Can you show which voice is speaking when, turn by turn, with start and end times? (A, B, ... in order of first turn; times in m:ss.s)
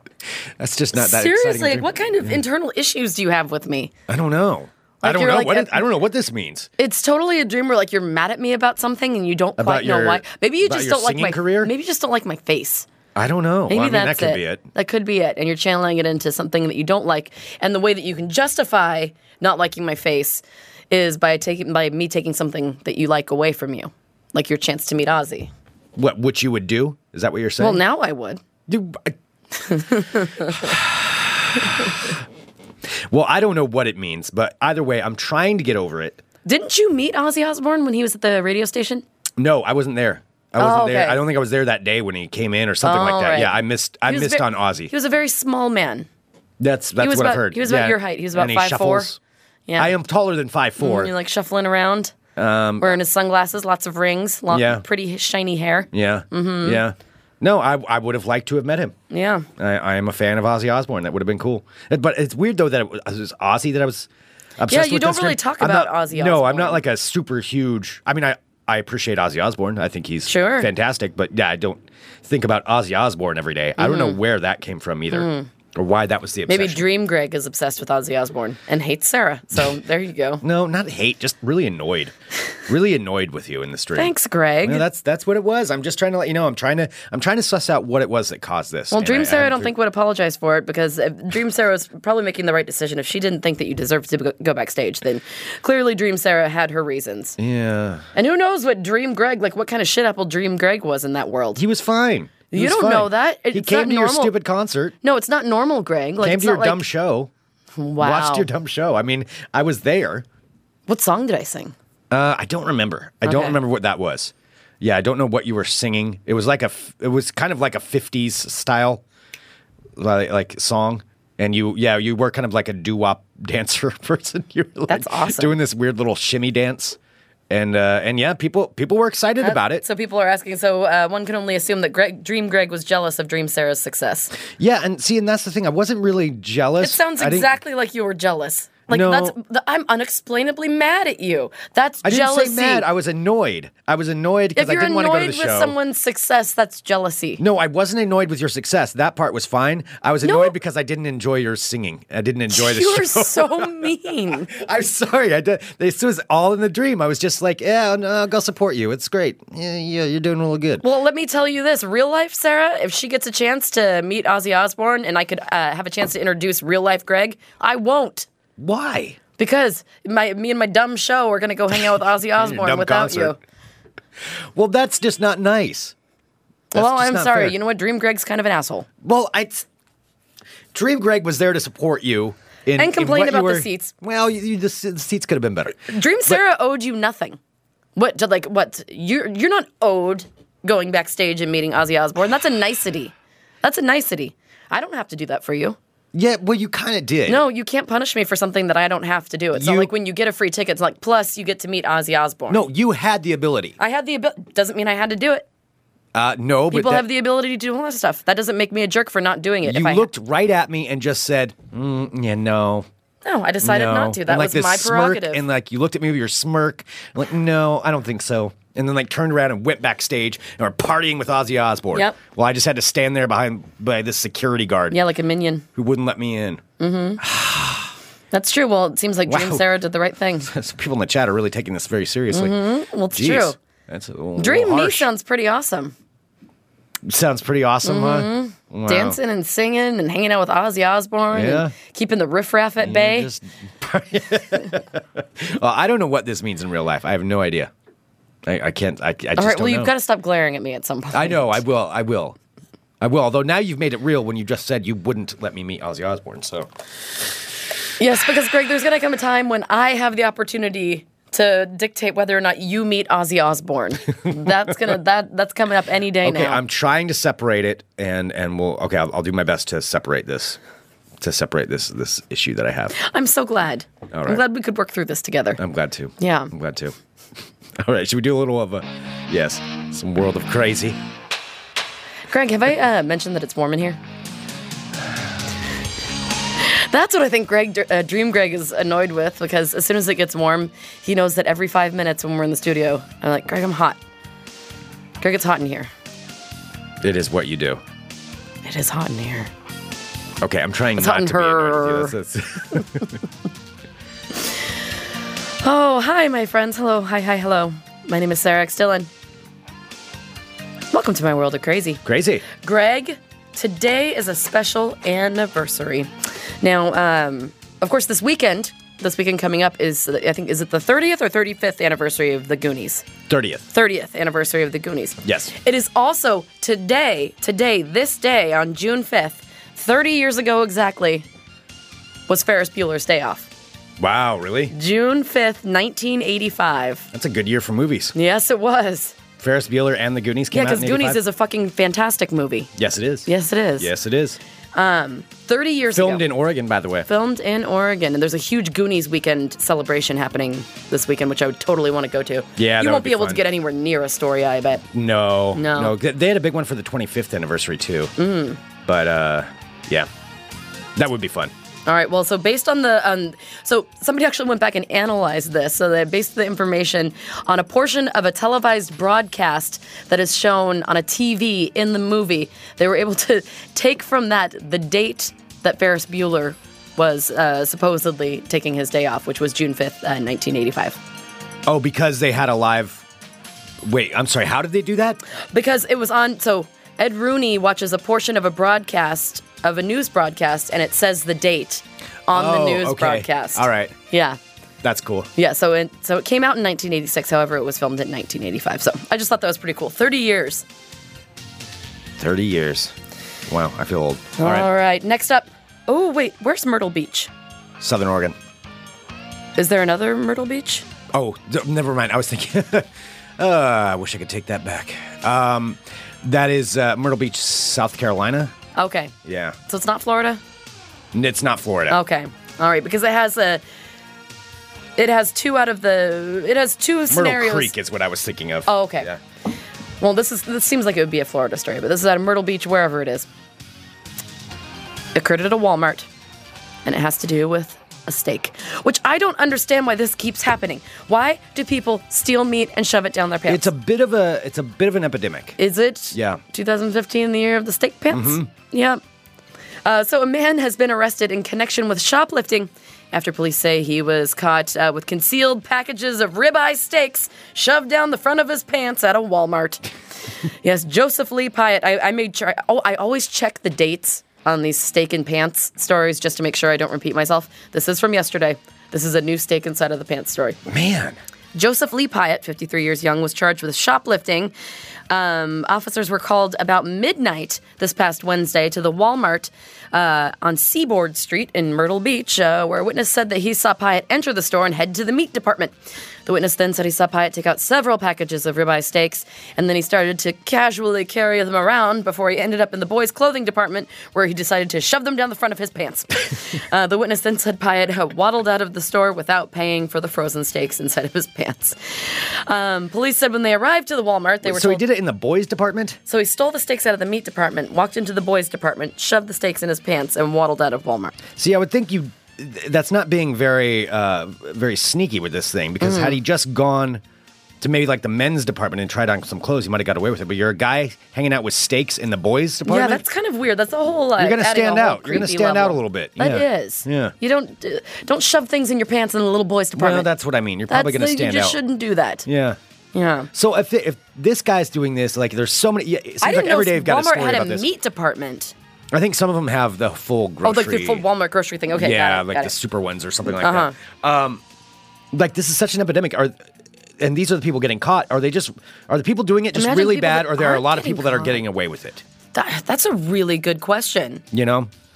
0:00.6-0:02.4 A
0:00.9-0:03.9 B
0:04.1-0:06.7 A
0:05.0-0:05.8 B
0:06.8-0:12.9 B
0:09.6-0:11.7 A
0:13.2-0:14.6 A
0:13.7-0:25.5 B
0:26.0-0:27.8 A
0:27.6-0:28.4 B
0:28.7-0:29.2 A
0:29.7-0:30.6 B
0:30.5-0:31.6 A
0:33.1-0:36.2 A
0:36.4-0:39.0 B
0:39.4-0:44.9 A
0:40.6-0:41.2 B
0:42.8-0:46.1 B
0:46.6-0:49.2 A
0:47.0-0:49.1 B
0:49.7-0:49.9 B
0:49.8-0:51.1 A
0:50.8-0:52.2 B
0:52.4-0:53.0 A
0:52.8-0:56.8 B
0:54.5-0:54.8 A
0:55.9-0:59.0 A
0:59.1-0:59.5 B
0:59.6-1:16.9 A
1:04.7-1:06.8 B
1:10.3-1:10.7 B
1:13.8-1:14.2 B
1:15.1-1:15.5 B
1:16.5-1:20.4 B
1:20.4-1:22.1 A
1:22.7-1:29.7 A
1:24.0-1:24.8 B
1:28.9-1:37.4 B
1:37.4-1:38.0 A
1:38.2-1:41.6 B
1:41.6-1:45.0 A
1:42.5-1:44.3 B
1:45.0-1:46.8 B
1:46.2-1:47.3 A
1:47.8-1:48.5 B
1:48.0-1:50.2 A
1:50.9-1:51.7 B
1:52.1-1:59.0 A
1:53.2-1:53.6 B
2:00.0-2:07.0 A
2:04.9-2:05.6 B
2:07.5-2:09.8 A
2:09.4-2:14.3 B
2:14.6-2:17.5 A
2:16.8-2:22.9 B
2:18.9-2:19.4 A
2:22.0-2:25.8 A
2:24.6-2:27.4 B
2:27.4-2:33.8 A
2:30.2-2:30.5 B
2:32.5-2:34.5 B
2:34.5-2:40.8 A
2:40.8-2:48.3 B
2:48.6-2:49.2 A
2:49.4-2:53.4 B
2:52.4-2:53.4 A
2:54.6-2:55.9 A
2:56.7-2:58.9 B
2:56.7-2:57.6 A
2:59.0-2:59.7 A
3:00.7-3:06.4 A
3:02.8-3:03.9 B
3:05.9-3:07.4 B
3:08.0-3:15.8 B
3:16.1-3:17.4 A
3:17.3-3:22.6 B
3:19.5-3:19.9 A
3:22.5-3:23.8 A
3:23.8-3:25.5 B
3:26.2-3:27.0 A
3:26.7-3:30.1 B
3:29.6-3:32.9 A
3:33.2-3:35.4 B
3:33.6-3:45.0 A
3:44.9-3:45.7 B
3:45.8-3:46.6 A
3:46.8-3:47.2 B
3:47.2-3:47.9 A
3:48.3-3:50.5 B
3:49.3-3:49.7 A
3:50.5-3:55.1 A
3:52.3-3:53.6 B
3:54.4-3:56.0 B
3:57.1-3:59.2 A
3:57.8-4:03.3 B
4:01.3-4:01.7 A
4:02.8-4:07.7 A
4:08.5-4:09.9 A
4:09.4-4:11.6 B
4:11.1-4:12.4 A
4:13.0-4:16.7 A
4:18.0-4:26.6 B
4:26.2-4:30.6 A
4:31.2-4:33.0 A
4:33.0-4:35.6 B
4:34.1-4:34.4 A
4:35.6-4:37.0 A
4:36.2-4:36.5 B
4:37.8-4:41.0 A
4:42.3-4:44.0 B
4:46.6-4:54.0 B
4:55.2-4:55.9 B
4:57.0-4:57.8 A
4:58.6-4:59.5 B
5:00.4-5:03.1 A
5:01.0-5:02.1 B
5:05.6-5:09.1 B
5:10.9-5:23.1 B
5:12.0-5:12.4 A
5:23.3-5:23.6 A
5:23.7-5:31.3 B
5:25.2-5:25.5 A
5:32.3-5:33.5 B
5:34.0-5:34.7 A
5:34.7-5:37.1 B
5:37.1-5:38.2 A
5:38.2-5:39.2 B
5:39.4-5:41.2 A
5:40.5-5:42.7 B
5:42.8-5:44.4 A
5:43.3-5:43.9 B
5:44.8-5:46.3 B
5:45.9-5:47.1 A
5:47.1-5:54.9 B
5:52.6-5:53.4 A
5:54.9-5:58.1 A
5:55.5-5:56.0 B
5:58.2-5:58.6 B
5:58.8-6:00.1 A
6:01.0-6:01.5 A
6:01.9-6:21.0 B
6:21.7-6:23.0 A
6:23.8-6:25.2 A
6:25.5-6:34.4 B
6:32.3-6:34.0 A
6:34.8-6:35.3 A
6:35.4-6:40.6 B
6:42.2-6:43.0 A
6:43.5-6:44.7 A
6:44.4-6:47.3 B
6:47.8-6:48.4 A
6:49.6-6:50.8 B
6:51.1-6:58.5 A
6:58.8-6:59.1 B
6:59.2-6:59.6 A
6:59.7-7:00.4 B
7:01.1-7:02.0 A
7:01.9-7:03.6 B
7:05.0-7:07.7 B
7:07.1-7:09.2 A
7:08.7-7:09.1 B
7:10.0-7:13.3 B
7:15.2-7:16.1 B
7:16.8-7:23.7 B
7:23.5-7:25.6 A
7:25.6-7:29.0 B
7:26.1-7:26.4 A
7:28.1-7:28.5 A
7:29.8-7:39.8 B
7:40.6-7:50.6 B
7:50.7-7:51.2 A
7:51.5-7:54.5 B
7:55.1-8:24.8 B
8:24.4-8:26.0 A
8:26.1-8:31.2 B
8:31.4-8:37.0 A
8:35.8-8:36.2 B
8:37.6-8:43.0 A
8:42.7-8:50.1 B
8:44.2-8:47.1 A
8:49.8-8:51.6 A
8:50.7-8:52.3 B
8:52.2-8:52.6 A
8:52.9-8:53.3 B
8:53.3-8:57.7 A
8:56.2-8:58.5 B
8:58.9-9:01.0 A
9:00.4-9:02.5 B
9:01.7-9:04.4 A
9:03.4-9:03.7 B
9:05.1-9:06.3 A
9:07.0-9:12.0 A
9:09.5-9:11.4 B
9:12.3-9:14.2 B
9:14.3-9:14.7 A